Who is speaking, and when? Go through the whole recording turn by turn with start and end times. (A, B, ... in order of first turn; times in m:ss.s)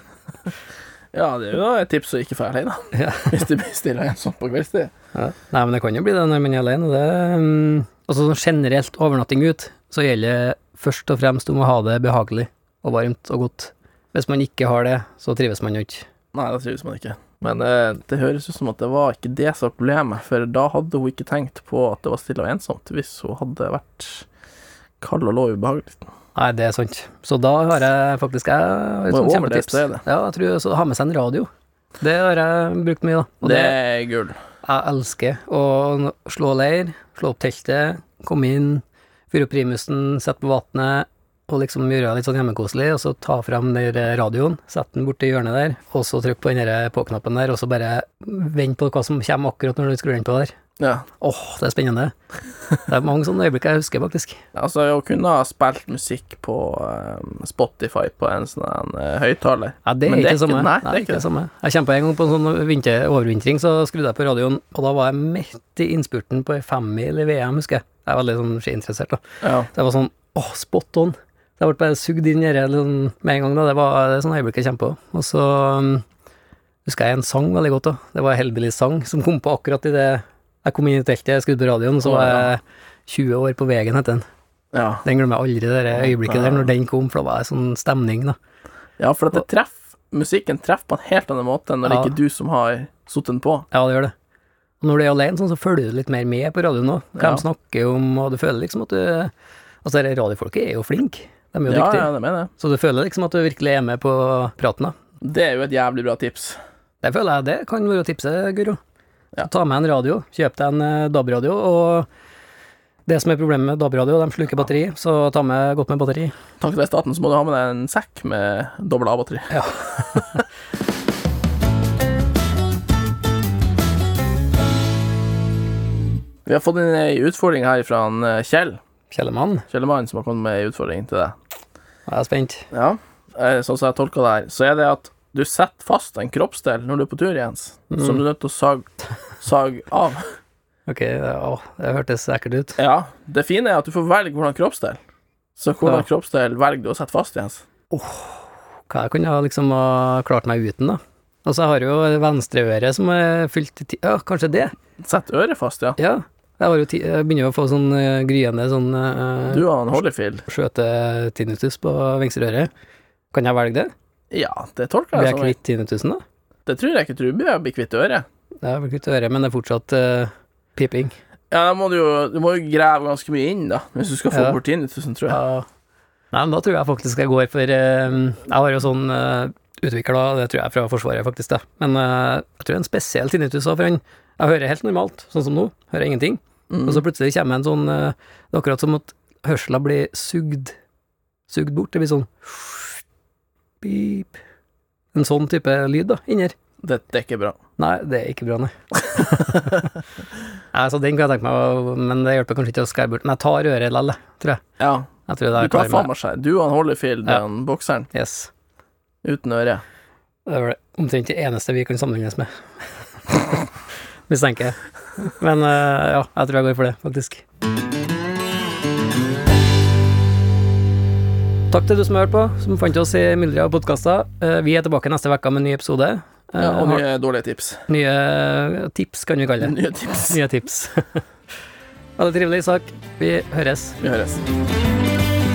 0:01.1-0:04.9 A
0:02.9-0:03.4 B
0:05.1-0:16.1 B
0:16.3-0:24.2 A
0:25.0-0:26.0 A
0:26.4-0:31.5 B
0:29.1-0:30.0 A
0:32.0-0:33.8 B
0:33.4-0:34.4 A
0:34.6-0:50.5 B
0:50.8-0:51.0 A
0:51.2-0:52.1 B
0:52.8-0:54.4 B
0:54.5-1:01.2 A
0:59.8-1:16.0 B
1:09.4-1:09.7 A
1:16.8-1:24.2 B
1:22.0-1:22.5 A
1:24.7-1:25.0 A
1:25.0-1:28.4 B
1:25.9-1:26.7 A
1:29.0-1:33.6 A
1:31.8-1:32.1 B
1:33.7-1:34.1 B
1:34.8-1:39.3 B
1:37.2-1:37.4 A
1:39.8-1:44.9 B
1:41.7-1:42.5 A
1:45.2-1:46.6 A
1:47.0-1:48.8 B
1:49.4-1:52.1 B
1:53.0-1:56.3 B
1:56.6-1:59.5 A
1:59.5-2:00.4 B
2:06.4-2:08.8 A
2:09.1-2:09.6 B
2:09.7-2:11.3 A
2:12.1-2:12.7 B
2:12.7-2:18.9 A
2:17.9-2:18.2 B
2:19.4-2:20.2 A
2:20.9-2:22.8 B
2:22.8-2:25.0 A
2:25.6-2:27.6 A
2:27.9-2:34.7 B
2:35.0-2:36.0 A
2:36.0-2:39.7 B
2:39.5-2:40.4 A
2:40.5-2:42.7 B
2:43.3-2:43.9 B
2:44.3-2:45.6 A
2:45.1-2:46.2 B
2:46.6-2:48.2 A
2:48.6-2:51.1 B
2:51.5-2:55.4 A
2:54.3-2:54.6 B
2:55.3-2:55.6 B
2:56.3-3:10.7 B
3:06.7-3:07.0 A
3:11.5-3:13.0 B
3:13.8-3:14.4 B
3:15.1-3:16.5 B
3:16.8-3:17.6 A
3:17.8-3:19.9 B
3:20.7-3:24.6 B
3:24.8-3:28.1 A
3:25.3-3:26.1 B
3:28.1-3:28.5 B
3:29.2-3:29.8 A
3:30.4-3:32.5 B
3:34.3-3:37.4 B
3:41.7-3:47.0 B
3:46.6-3:47.8 A
3:47.9-3:51.2 B
3:49.6-3:50.4 A
3:52.2-3:54.0 B
3:54.0-3:54.4 A